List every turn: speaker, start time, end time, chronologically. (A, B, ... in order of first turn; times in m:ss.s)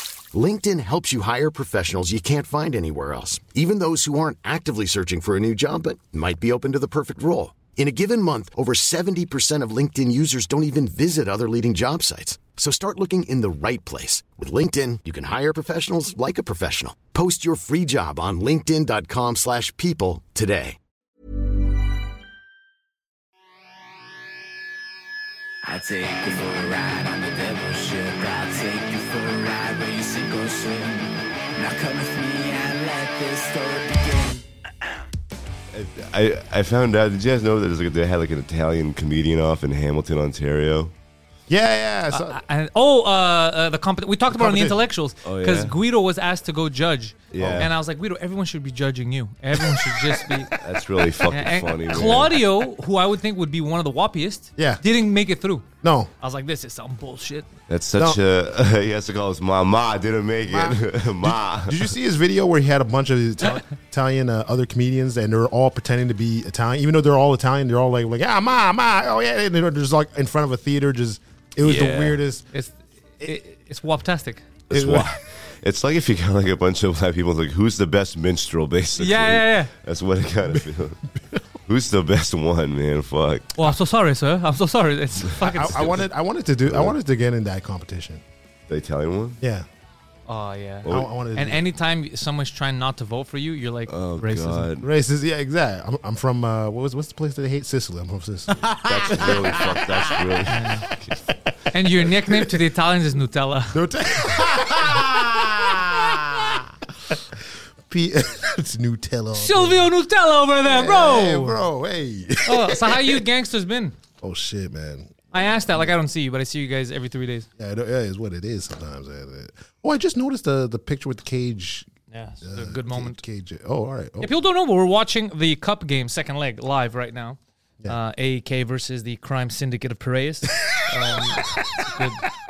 0:00.3-0:20.8 A
0:25.6-0:34.4 B
0:35.7-0:40.9 C
0:41.5-0:42.4 D
0:42.1-0:50.5 E
0:44.3-0:44.8 D
0:45.2-0:45.7 C
0:47.3-0:47.7 C
0:47.3-0:47.7 D
0:49.7-0:50.0 D
0:50.6-0:52.3 C
0:51.3-0:55.7 E
0:54.6-0:54.8 D
0:55.8-0:56.1 D
0:56.2-0:57.5 E
0:57.7-1:01.9 C
1:00.4-1:12.4 D
1:11.6-1:12.2 C
1:12.5-1:14.4 E
1:14.7-1:21.0 C
1:14.7-1:15.1 D
1:19.0-1:19.7 E
1:21.2-1:21.4 D
1:21.7-1:23.6 C
1:23.6-1:26.0 E
1:25.4-1:28.2 D
1:26.7-1:26.9 C
1:28.7-1:29.4 C
1:29.4-1:29.7 D
1:30.3-1:34.7 E
1:30.9-1:31.6 D
1:33.9-1:34.9 C
1:34.8-1:40.5 D
1:38.8-1:41.1 C
1:40.5-1:40.9 E
1:41.7-1:43.8 E
1:42.3-1:42.6 D
1:43.7-1:49.9 D
1:49.3-1:51.6 E
1:50.6-1:53.2 D
1:52.4-1:54.0 E
1:54.2-1:55.9 D
1:55.3-1:57.5 E
1:57.6-2:01.9 D
2:02.1-2:03.2 E
2:02.4-2:04.3 D
2:04.2-2:12.2 E